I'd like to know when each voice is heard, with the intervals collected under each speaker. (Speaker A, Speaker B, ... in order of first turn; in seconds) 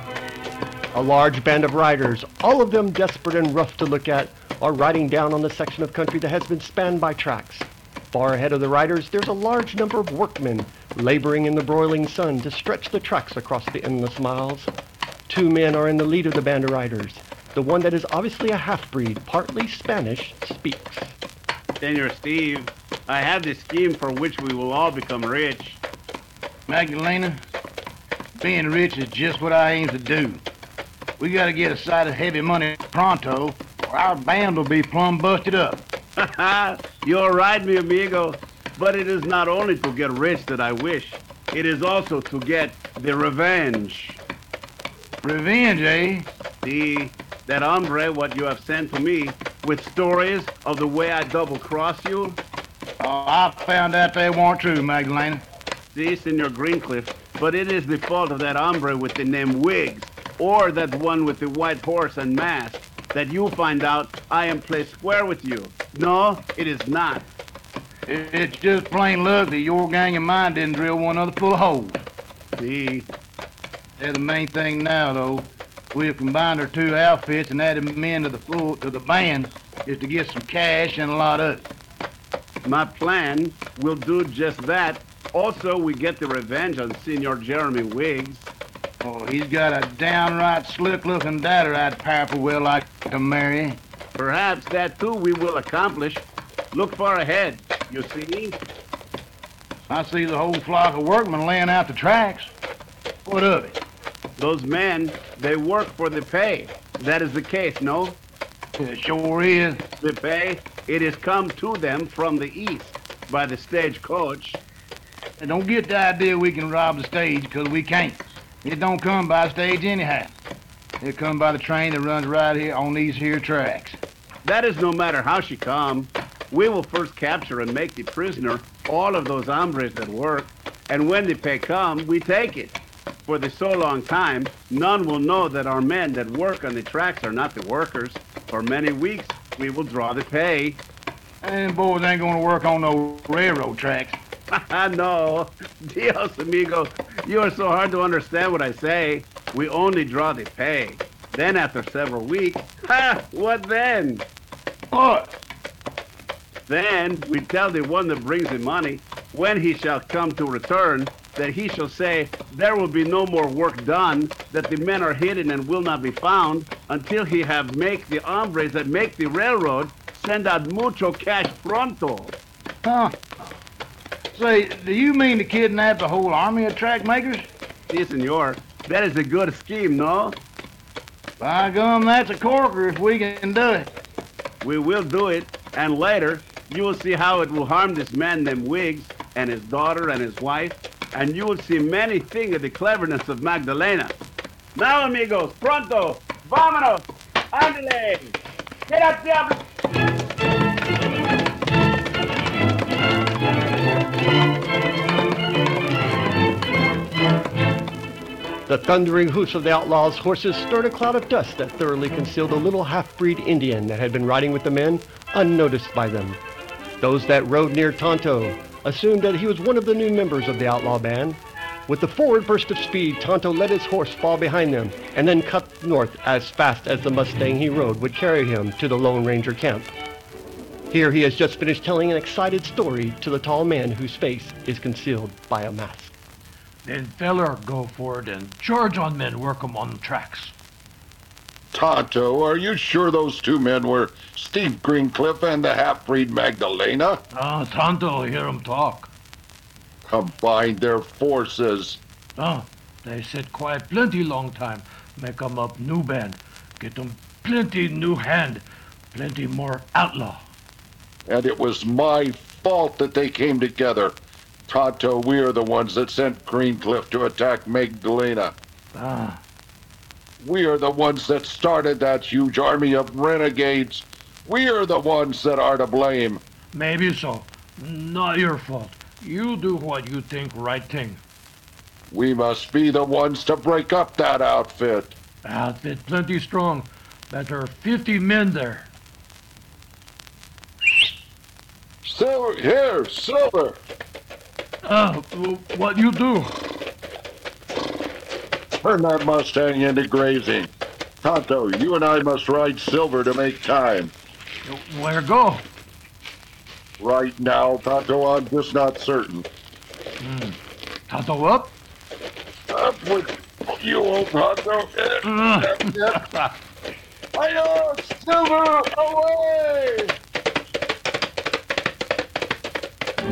Speaker A: 0.9-14.7, 15.3-21.1, 208.7-216.4, 217.0-229.9, 230.9-236.1
Speaker B: 21.8-25.8, 36.2-44.2, 46.6-52.4, 55.9-67.3, 72.6-73.1, 82.6-88.5, 94.2-98.6, 104.4-108.2, 110.0-114.6, 124.4-132.8, 133.3-140.8, 144.5-154.3, 156.7-172.4, 177.9-180.4, 184.6-194.2, 194.8-198.3, 198.9-199.6
Speaker C: 26.7-27.4, 28.4-30.4, 31.2-35.8, 45.2-46.3, 53.0-55.4, 68.1-72.0, 74.0-81.7, 89.0-93.8, 99.9-102.5, 103.3-103.8, 108.8-109.8, 115.4-120.3, 121.0-124.0, 141.4-144.2, 154.9-155.3, 172.9-173.2, 174.3-177.5, 181.4-183.9
Speaker D: 236.8-240.6, 247.3-249.1, 252.4-260.4, 268.9-269.4, 276.7-281.2, 285.4-288.9, 294.9-296.6, 304.7-305.6, 310.2-310.6, 311.1-311.7, 315.2-315.9
Speaker E: 241.7-247.2, 250.1-252.0, 261.3-264.2, 264.7-268.6, 270.4-276.4, 282.1-285.2, 292.1-293.8, 298.8-300.7, 301.2-304.1, 307.0-309.5, 312.7-316.2, 317.4-320.1